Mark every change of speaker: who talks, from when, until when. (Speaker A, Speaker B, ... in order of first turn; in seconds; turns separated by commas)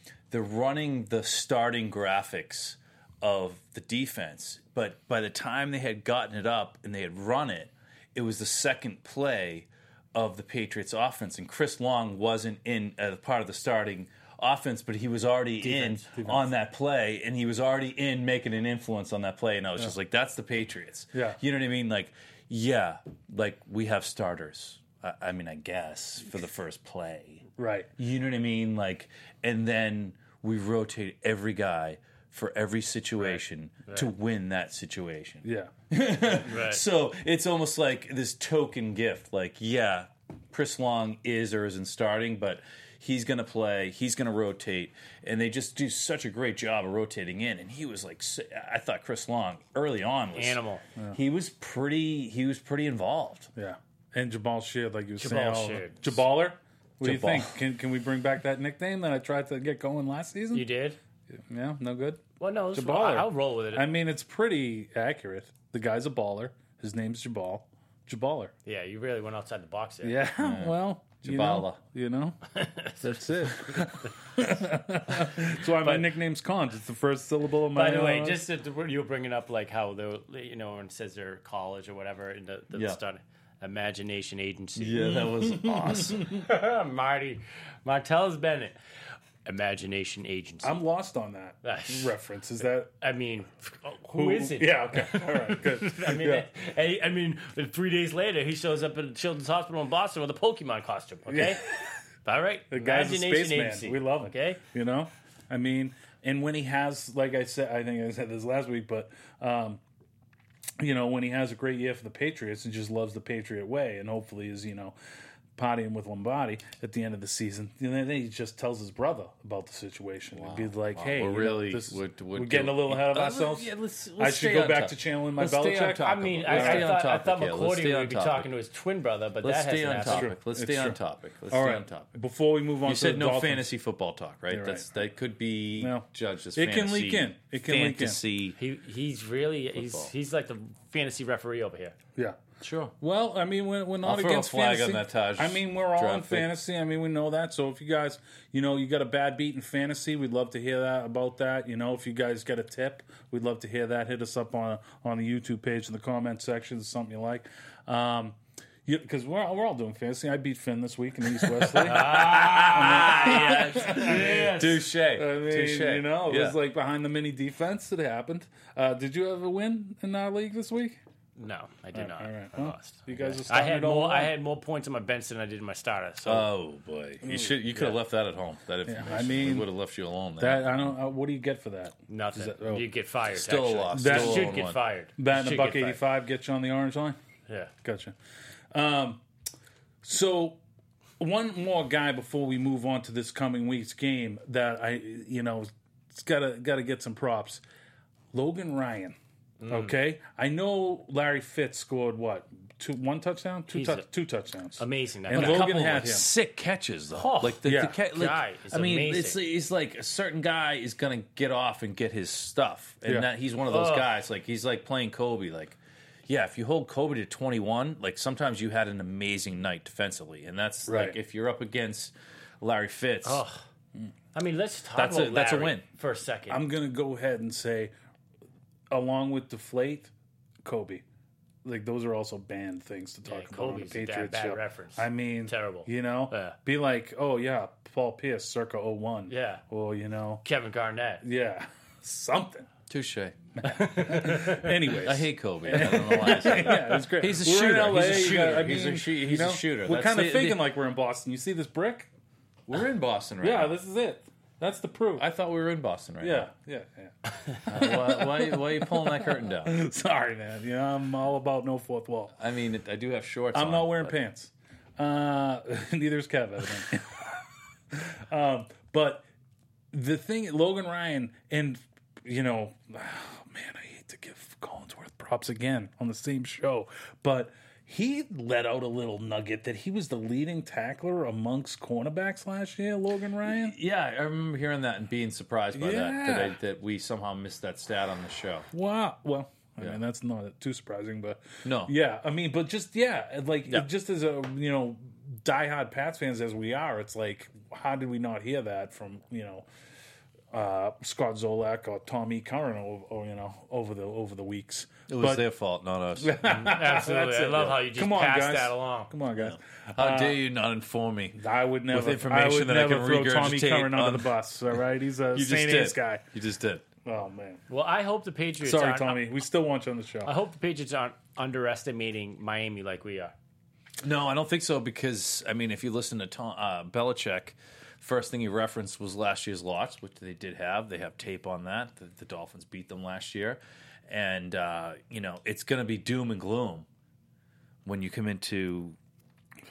Speaker A: 0.3-27.5, Speaker B: 15.6-16.4, Speaker C: 15.7-16.0, Speaker B: 21.1-21.4, Speaker B: 27.6-27.9, Speaker A: 28.0-50.6, Speaker B: 35.4-35.7, Speaker C: 36.5-36.8, Speaker C: 50.4-50.8, Speaker A: 51.1-53.5, Speaker B: 53.6-60.7, Speaker C: 55.2-56.2, Speaker A: 57.0-57.6, Speaker C: 60.5-61.0, Speaker B: 61.5-62.2, Speaker C: 62.4-63.9, Speaker B: 62.7-68.5, Speaker C: 68.7-70.2, Speaker B: 70.0-72.4, Speaker A: 70.4-71.8, Speaker C: 72.5-73.0, Speaker B: 73.0-78.4, Speaker C: 75.2-76.1, Speaker C: 77.7-85.3, Speaker A: 82.7-83.0, Speaker A: 84.8-86.4, Speaker C: 86.1-88.8, Speaker C: 89.5-90.8, Speaker B: 90.6-92.9, Speaker C: 91.6-92.2, Speaker C: 93.0-101.6, Speaker B: 94.1-96.5, Speaker B: 101.3-102.0, Speaker C: 102.2-104.6, Speaker B: 102.7-109.8, Speaker B: 110.8-115.0, Speaker B: 115.6-126.9, Speaker A: 120.3-128.5, Speaker C: 126.0-130.3, Speaker A: 129.4-132.2, Speaker B: 130.1-131.0, Speaker B: 131.5-133.7, Speaker A: 132.8-138.6, Speaker B: 134.5-134.9, Speaker B: 135.8-138.2, Speaker C: 138.6-142.0, Speaker A: 139.8-140.1, Speaker A: 142.6-142.9, Speaker B: 143.0-171.0, Speaker A: 144.0-146.5, Speaker A: 161.4-166.6, Speaker C: 161.8-164.7, Speaker C: 171.4-176.5, Speaker B: 171.9-174.3, Speaker A: 176.2-180.9, Speaker B: 177.2-177.6, Speaker B: 178.9-179.7, Speaker B: 180.4-182.9, Speaker C: 182.1-186.0, Speaker A: 183.3-184.8, Speaker B: 183.9-184.5, Speaker B: 185.2-187.2, Speaker B: 187.8-188.2, Speaker B: 188.7-189.2, Speaker B: 190.0-190.6, Speaker B: 191.2-197.6, Speaker B: 198.3-199.2, Speaker C: 199.6-199.9, Speaker B: 199.7-206.3, Speaker C: 203.7-204.1, Speaker C: 204.8-205.7, Speaker A: 205.3-223.4, Speaker C: 207.1-209.4, Speaker B: 207.6-208.0, Speaker C: 213.7-214.1, Speaker B: 220.9-221.2, Speaker C: 223.2-223.6, Speaker C: 224.3-226.6, Speaker A: 224.9-225.8, Speaker B: 226.5-227.9, Speaker B: 228.9-230.1, Speaker B: 230.7-231.0, Speaker B: 231.7-240.4, Speaker C: 233.3-236.6, Speaker C: 239.3-239.6, Speaker C: 240.4-241.2, Speaker B: 241.2-242.7, Speaker A: 242.9-243.4, Speaker B: 243.6-252.1, Speaker C: 243.7-244.8, Speaker A: 244.9-250.7, Speaker A: 252.7-253.8, Speaker B: 253.4-255.3, Speaker A: 255.2-256.5, Speaker B: 256.2-257.1, Speaker B: 257.7-262.4, Speaker A: 257.7-259.8, Speaker A: 262.4-264.2, Speaker B: 263.5-267.2, Speaker B: 267.9-269.2, Speaker B: 269.9-283.8, Speaker A: 283.4-288.7, Speaker B: 285.7-286.6, Speaker B: 288.7-299.7, Speaker A: 291.6-291.9, Speaker B: 300.5-305.4, Speaker A: 305.1-306.7, Speaker B: 306.2-310.4, Speaker C: 306.5-309.1, Speaker A: 309.4-314.3, Speaker B: 311.4-316.2, Speaker A: 315.3-316.9, Speaker B: 317.1-317.6, Speaker C: 317.7-319.2, Speaker B: 318.6-320.3, Speaker C: 320.2-323.3, Speaker A: 324.0-336.9, Speaker A: 337.9-339.0